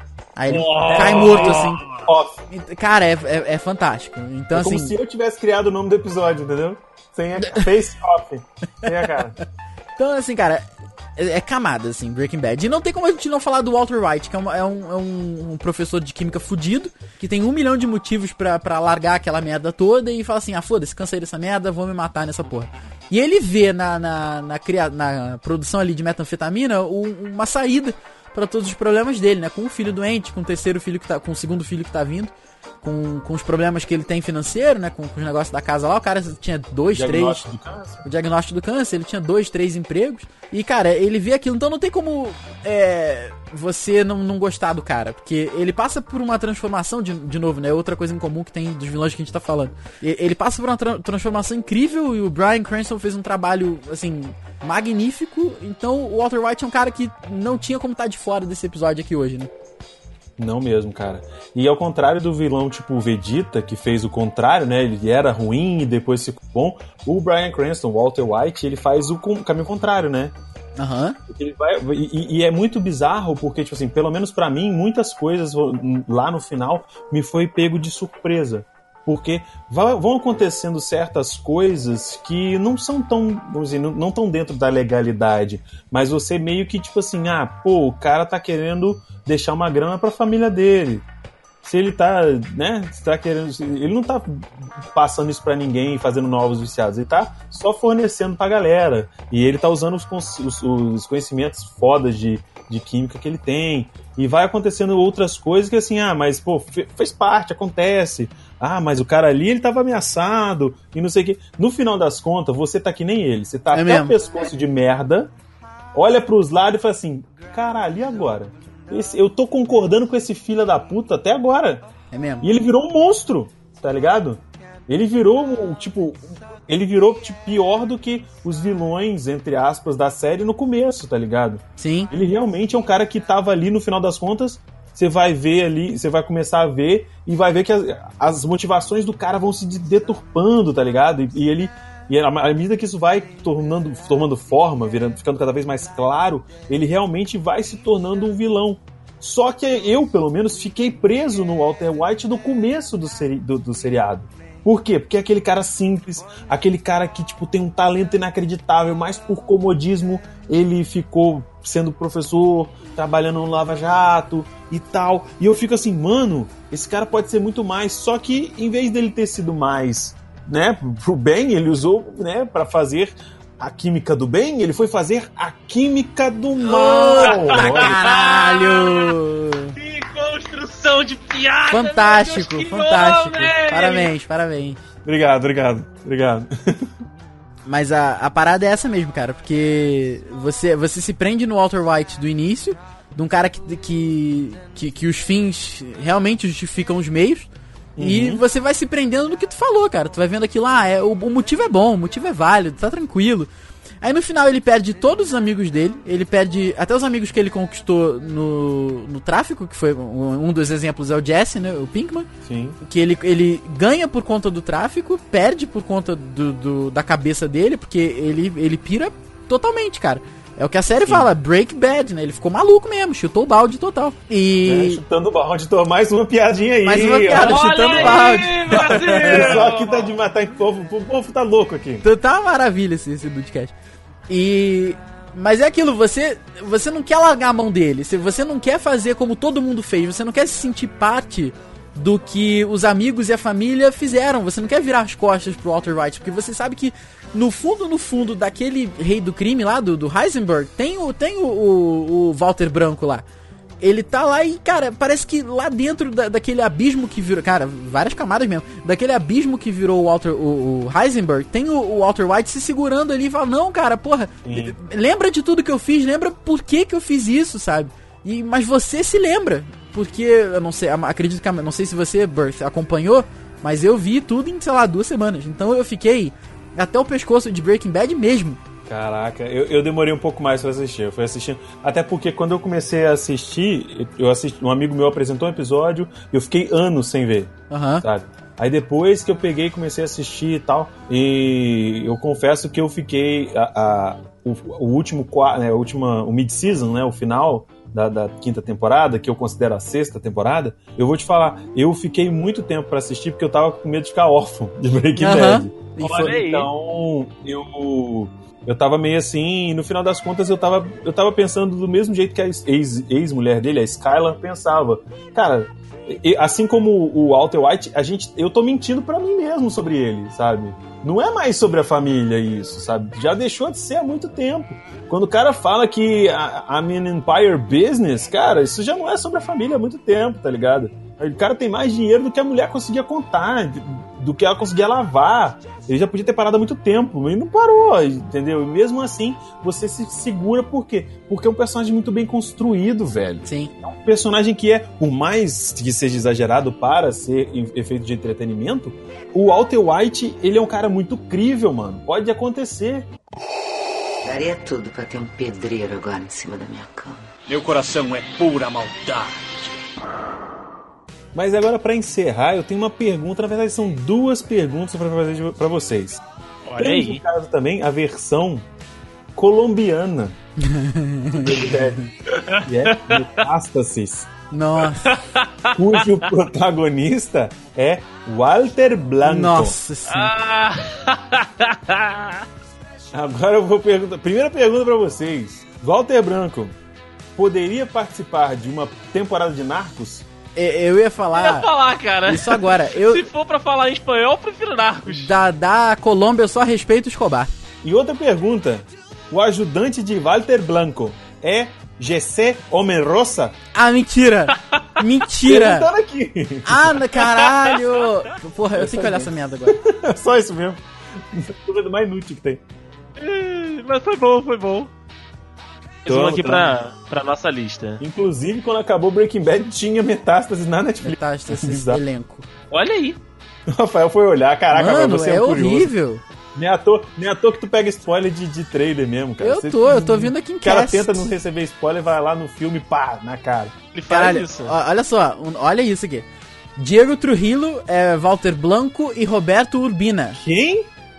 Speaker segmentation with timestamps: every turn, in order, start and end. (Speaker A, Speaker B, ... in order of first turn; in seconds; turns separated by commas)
Speaker A: 0.3-1.8, Speaker B: 0.5-2.4, Speaker C: 0.7-1.9, Speaker A: 2.5-4.9, Speaker B: 4.5-9.4, Speaker A: 7.4-7.7, Speaker A: 10.0-10.6, Speaker A: 11.2-37.5, Speaker B: 36.9-38.0, Speaker A: 38.0-59.5, Speaker B: 60.4-70.3, Speaker A: 70.8-71.2, Speaker B: 71.3-91.0, Speaker B: 91.6-115.3, Speaker A: 113.7-114.2, Speaker B: 115.9-121.9, Speaker A: 122.1-122.5, Speaker B: 122.4-178.0, Speaker A: 131.8-132.1, Speaker A: 176.6-179.7, Speaker C: 177.2-179.2, Speaker C: 179.8-184.1, Speaker A: 181.7-184.8, Speaker B: 185.0-186.9, Speaker A: 187.7-197.5, Speaker B: 197.9-198.4, Speaker A: 198.0-203.5, Speaker A: 204.0-212.3, Speaker B: 212.4-212.8, Speaker A: 212.8-225.0, Speaker B: 221.0-221.3, Speaker B: 224.6-232.0, Speaker A: 226.8-229.6, Speaker C: 227.3-230.1, Speaker A: 232.0-233.7, Speaker A: 234.3-253.2, Speaker A: 253.8-278.6, Speaker B: 264.4-264.8, Speaker B: 278.9-353.1, Speaker A: 287.7-288.0, Speaker A: 305.2-306.4, Speaker C: 306.2-306.7, Speaker A: 343.4-343.7, Speaker D: 354.2-357.2, Speaker E: 357.5-359.8, Speaker B: 361.3-366.2, Speaker C: 366.7-367.2, Speaker B: 366.8-368.6, Speaker B: 369.3-370.4, Speaker A: 370.6-372.1, Speaker B: 371.3-372.1, Speaker C: 372.3-373.3, Speaker B: 372.6-374.3, Speaker A: 374.5-375.2, Speaker C: 375.0-376.1, Speaker B: 375.8-379.8, Speaker A: 379.2-380.3, Speaker C: 380.1-382.4, Speaker B: 383.1-386.7, Speaker B: 387.4-390.2, Speaker A: 390.6-391.7, Speaker C: 391.3-395.3, Speaker A: 392.2-393.2, Speaker A: 395.1-397.5, Speaker B: 397.8-403.5, Speaker A: 403.7-405.9, Speaker B: 405.4-407.0, Speaker A: 406.6-409.8, Speaker C: 407.4-407.9, Speaker B: 408.7-412.6, Speaker C: 413.2-414.9, Speaker C: 416.0-418.0, Speaker B: 416.1-416.7, Speaker B: 418.0-422.0, Speaker A: 421.0-422.4, Speaker C: 422.7-423.2, Speaker B: 423.7-425.9, Speaker A: 424.7-426.2, Speaker B: 426.5-433.7, Speaker A: 429.4-431.3, Speaker C: 433.9-434.7, Speaker A: 434.1-436.2, Speaker A: 436.8-440.4, Speaker B: 440.4-440.9